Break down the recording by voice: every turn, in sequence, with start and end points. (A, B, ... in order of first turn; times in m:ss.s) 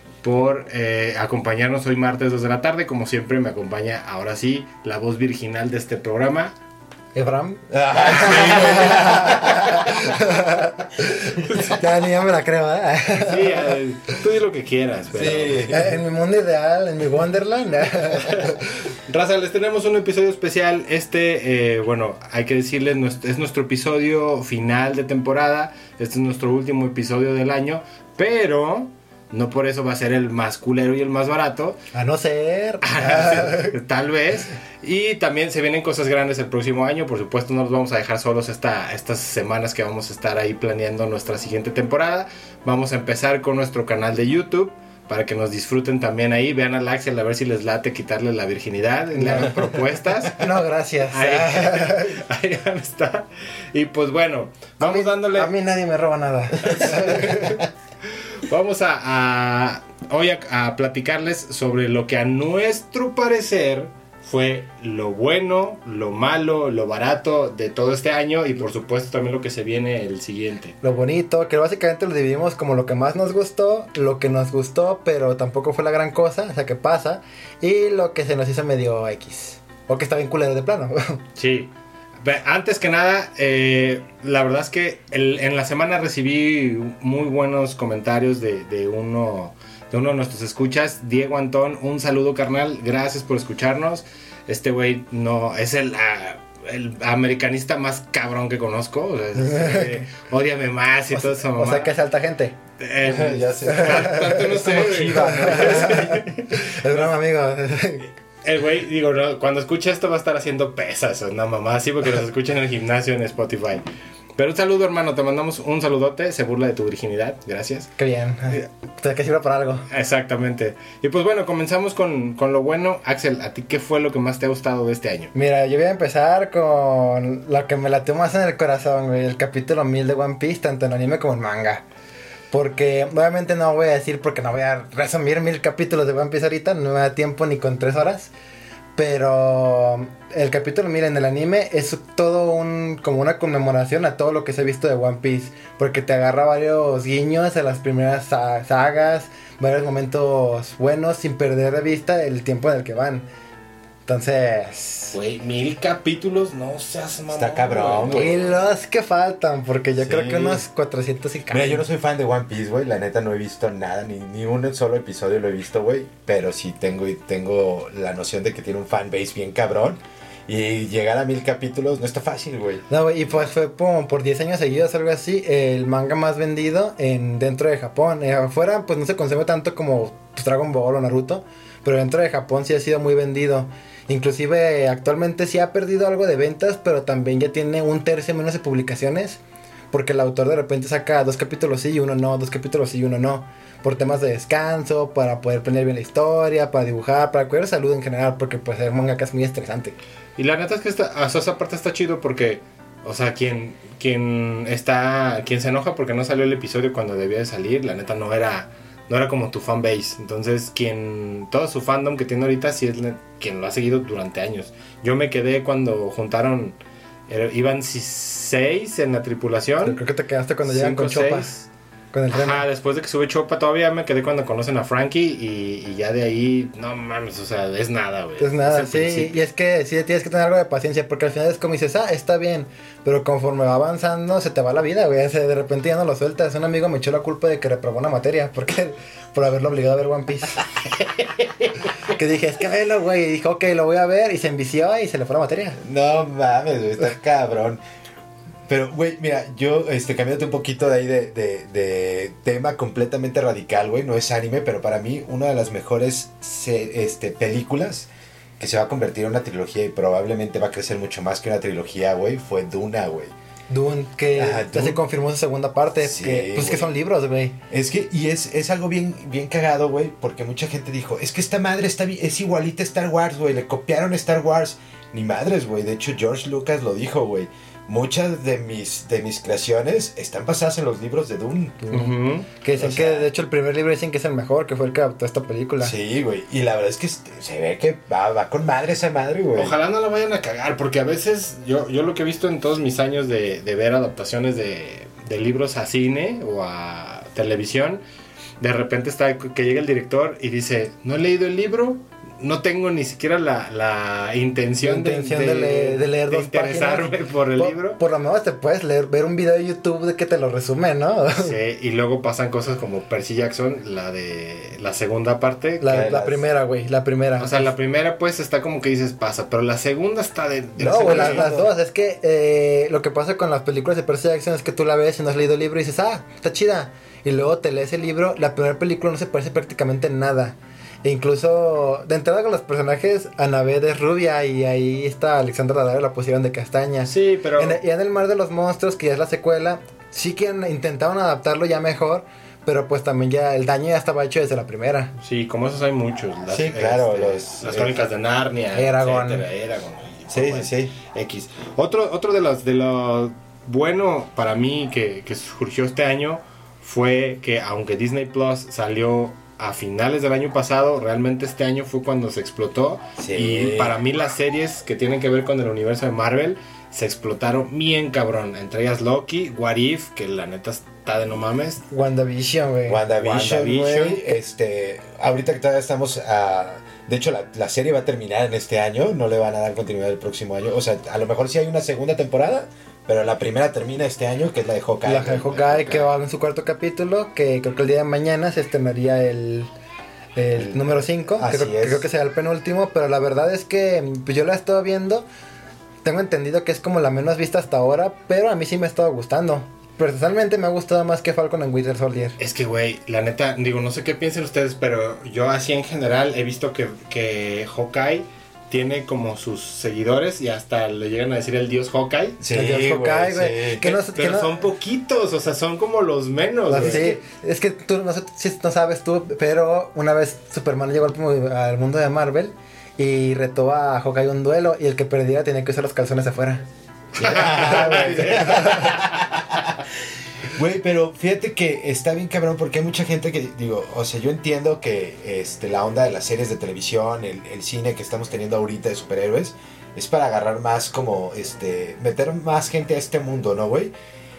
0:00.2-0:06.5 A
0:07.1-0:13.8 B
0:07.7-0:10.2 C
0:08.2-0:09.9 A
0:11.4-0:11.8 A
0:13.2-0:15.6 A
0:15.1-0:15.9 C
0:15.7-0:18.6 B
0:18.2-0:31.8 A
0:31.9-0:33.7 B
0:32.8-0:50.4 A
0:49.1-0:49.8 B
0:50.4-0:52.2 B
0:51.1-0:55.5 A
0:54.8-0:57.6 B
0:56.6-1:10.8 A
1:10.8-1:21.2 B
1:21.4-1:21.7 A
1:22.2-1:41.9 A
1:39.4-1:40.0 B
1:41.1-1:42.6 B
1:42.8-1:47.0 A
1:43.0-1:46.2 C
1:43.7-1:44.5 B
1:45.2-1:48.1 B
1:48.4-1:53.8 A
1:54.4-1:57.9 A
1:58.0-1:59.8 B
1:59.9-2:05.3 A
2:05.3-2:11.8 B
2:12.5-2:18.3 B
2:19.0-2:33.2 B
2:34.1-2:35.2 B
2:35.1-2:38.4 A
2:37.3-2:38.6 C
2:38.1-2:41.8 B
2:40.0-2:40.6 C
2:41.5-2:52.9 C
2:52.9-3:09.4 B
3:09.9-3:20.0 B
3:20.4-3:36.8 A
3:37.3-3:40.0 A
3:39.8-3:41.6 B
3:40.6-3:41.6 A
3:42.1-3:42.6 B
3:42.3-3:49.4 A
3:48.4-4:00.6 B
4:02.0-4:05.8 B
4:05.8-4:07.8 C
4:08.7-4:23.3 C
4:23.7-4:27.6 B
4:24.4-4:25.0 C
4:26.0-4:26.9 C
4:27.7-4:41.9 C
4:41.9-4:45.9 B
4:41.9-4:42.5 A
4:42.7-4:43.3 C
4:45.8-4:49.8 C
4:49.5-4:58.0 A
4:58.6-5:08.0 A
5:04.8-5:11.6 B
5:11.4-5:16.1 A
5:15.8-5:17.6 B
5:15.9-5:16.5 C
5:17.4-5:21.5 A
5:20.8-5:21.7 C
5:20.8-5:45.1 B
5:37.1-5:37.8 A
5:45.2-6:11.8 A
5:46.5-5:48.0 C
5:48.7-5:49.4 B
5:50.3-5:50.9 C
6:03.2-6:04.0 C
6:11.9-6:13.0 B
6:12.8-6:26.1 C
6:13.2-6:14.3 A
6:25.0-6:29.7 B
6:30.4-6:35.2 B
6:30.6-6:32.1 C
6:36.0-6:42.4 B
6:42.4-6:52.4 A
6:52.4-6:53.8 C
6:52.5-6:54.6 B
6:53.8-6:57.2 A
6:56.7-7:06.6 B
7:07.2-7:09.8 C
7:07.2-7:09.2 A
7:07.4-7:09.0 B
7:10.4-7:23.9 C